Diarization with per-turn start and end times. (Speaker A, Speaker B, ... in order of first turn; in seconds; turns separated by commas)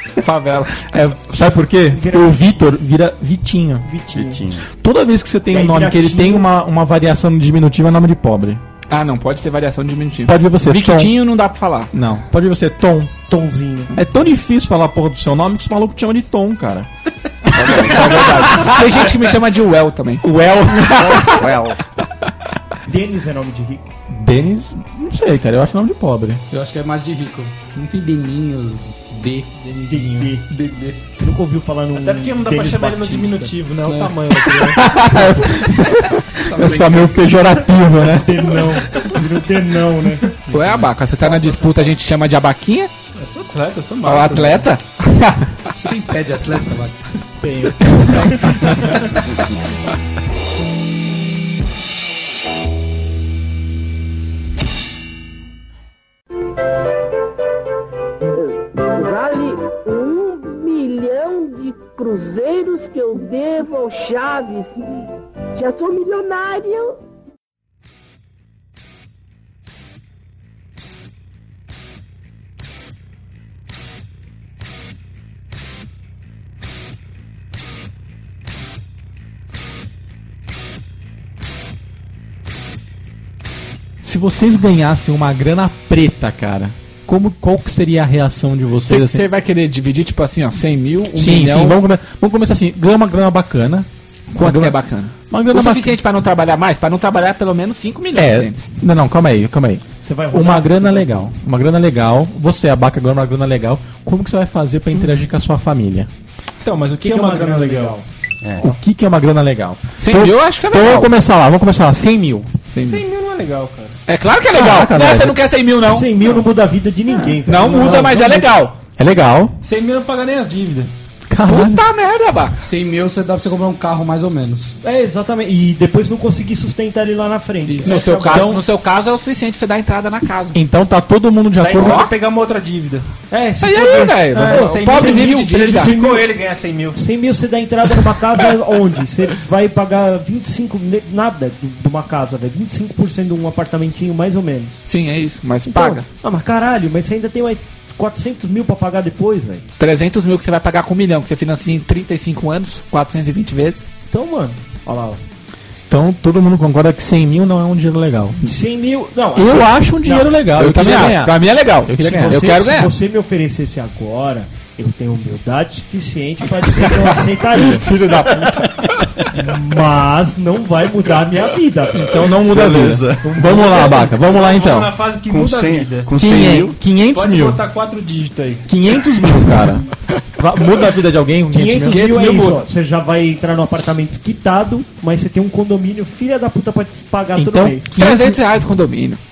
Speaker A: 0.2-1.0, Speaker B: 0.9-3.9, Speaker C: 1.9-2.5, Speaker C: 3.8-4.4, Speaker D: 4.1-4.6, Speaker B: 4.7-8.6, Speaker C: 5.5-6.5, Speaker A: 8.9-11.9, Speaker B: 10.2-11.2, Speaker B: 11.9-13.1, Speaker C: 13.3-14.0, Speaker B: 13.9-16.9, Speaker D: 17.5-18.5, Speaker A: 17.6-20.2, Speaker B: 17.9-19.1, Speaker B: 20.2-21.2, Speaker D: 20.9-21.8, Speaker A: 21.0-21.4, Speaker C: 22.9-23.9, Speaker B: 24.1-26.4, Speaker E: 26.5-29.6, Speaker F: 29.6-30.3, Speaker C: 29.9-30.4, Speaker E: 30.5-31.0, Speaker C: 31.1-33.5, Speaker F: 31.9-34.9, Speaker E: 33.9-34.1, Speaker B: 34.6-38.6, Speaker E: 36.4-37.2, Speaker C: 38.1-40.3, Speaker A: 40.5-42.9, Speaker E: 40.5-40.9, Speaker F: 43.2-44.7, Speaker A: 44.0-45.5, Speaker E: 45.7-47.0, Speaker F: 47.4-48.9, Speaker G: 58.4-65.0, Speaker G: 65.5-67.0, Speaker B: 84.0-89.2, Speaker A: 88.9-91.8, Speaker B: 91.1-94.8, Speaker A: 94.3-98.7, Speaker B: 95.3-96.0, Speaker B: 98.1-106.1, Speaker C: 100.0-101.1, Speaker F: 106.6-108.0, Speaker C: 107.0-108.0, Speaker B: 108.6-112.5, Speaker A: 110.0-111.1, Speaker A: 112.7-113.0, Speaker F: 112.8-114.0, Speaker A: 114.1-116.1, Speaker B: 114.4-115.5, Speaker C: 115.8-118.5, Speaker A: 117.5-118.8, Speaker B: 119.0-119.6, Speaker F: 119.6-120.9, Speaker B: 121.3-121.8, Speaker A: 121.5-122.6, Speaker E: 122.6-124.8, Speaker C: 124.8-128.6, Speaker E: 127.7-128.0, Speaker A: 127.8-130.6, Speaker B: 130.5-132.1, Speaker F: 131.6-133.4, Speaker A: 131.8-132.1, Speaker C: 133.3-136.3, Speaker A: 133.6-135.9, Speaker F: 134.2-137.0, Speaker C: 136.9-144.8, Speaker A: 144.8-146.1, Speaker C: 145.7-149.6, Speaker A: 149.8-153.9, Speaker C: 154.1-155.2, Speaker B: 155.9-158.5, Speaker C: 158.4-160.9, Speaker B: 159.3-162.6, Speaker A: 160.5-162.9, Speaker C: 162.0-167.9, Speaker A: 167.6-168.9, Speaker C: 169.3-172.1, Speaker B: 171.9-174.9, Speaker D: 172.5-173.4, Speaker F: 173.2-176.3, Speaker C: 173.4-173.9, Speaker D: 175.2-176.8, Speaker B: 176.1-177.6, Speaker F: 177.0-178.6, Speaker B: 178.7-179.9, Speaker B: 180.4-182.1, Speaker C: 181.5-187.9, Speaker A: 181.9-182.6, Speaker B: 187.3-188.4, Speaker A: 188.0-189.2